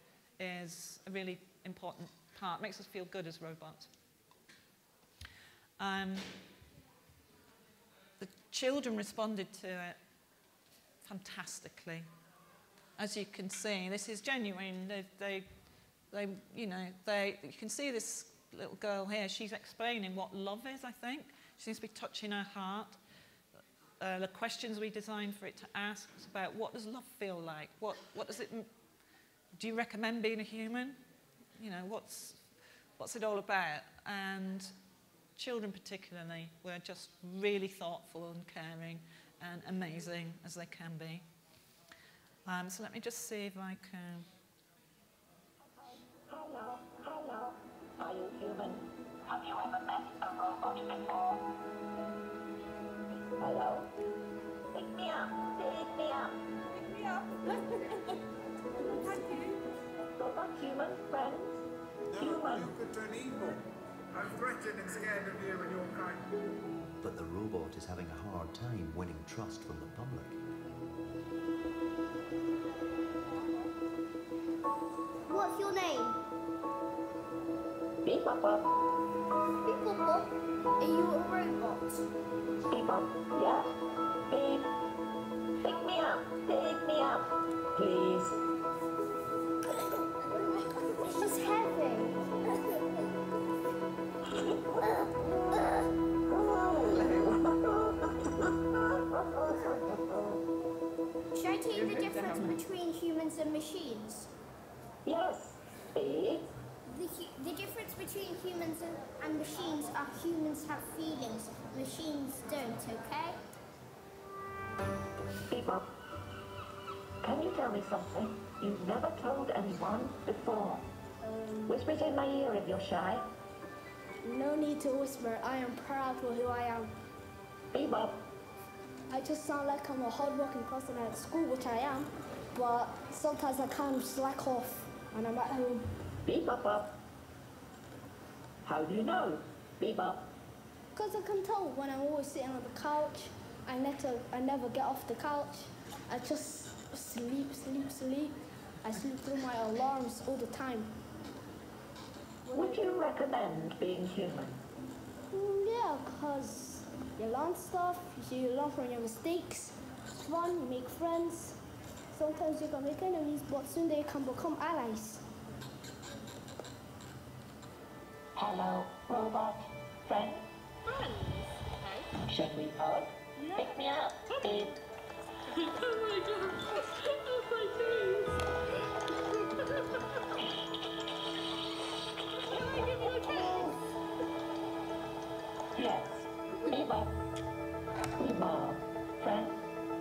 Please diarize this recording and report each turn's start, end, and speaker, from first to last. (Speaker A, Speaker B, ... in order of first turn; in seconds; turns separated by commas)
Speaker A: 0.4-3.9, Speaker A: 5.8-6.3, Speaker A: 8.2-10.0, Speaker A: 11.0-12.1, Speaker A: 13.0-15.5, Speaker A: 16.1-23.0, Speaker A: 24.0-28.7, Speaker A: 29.6-31.0, Speaker A: 31.6-32.4, Speaker A: 33.0-34.7, Speaker A: 35.4-41.2, Speaker A: 42.5-44.3, Speaker B: 45.6-51.5, Speaker B: 53.4-53.9, Speaker B: 54.7-56.4, Speaker B: 60.2-61.6, Speaker C: 62.1-63.6, Speaker B: 62.2-62.8, Speaker C: 64.1-66.2, Speaker D: 67.0-70.4, Speaker E: 75.3-76.2, Speaker B: 78.0-78.7, Speaker E: 79.7-80.3, Speaker E: 80.8-82.0, Speaker B: 82.7-83.7, Speaker B: 84.3-84.7, Speaker B: 85.6-88.3, Speaker E: 91.0-92.3, Speaker B: 94.3-95.7, Speaker B: 96.3-100.4, Speaker E: 101.3-104.3, Speaker B: 105.0-106.5, Speaker E: 106.9-113.4, Speaker B: 115.5-115.8, Speaker B: 117.2-120.9, Speaker F: 121.3-121.7, Speaker B: 121.7-123.2, Speaker F: 124.2-126.9, Speaker B: 127.7-128.2, Speaker F: 129.1-135.8, Speaker B: 136.2-136.9, Speaker B: 138.7-140.2, Speaker F: 140.9-150.9, Speaker F: 152.5-152.8, Speaker B: 152.5-154.6, Speaker F: 155.3-161.6, Speaker F: 162.1-165.2, Speaker B: 168.4-170.4, Speaker G: 170.9-172.1, Speaker B: 172.3-174.8, Speaker G: 173.4-173.7, Speaker G: 175.5-178.4, Speaker G: 179.3-180.0, Speaker G: 182.4-183.8, Speaker B: 185.8-187.1, Speaker B: 188.2-189.6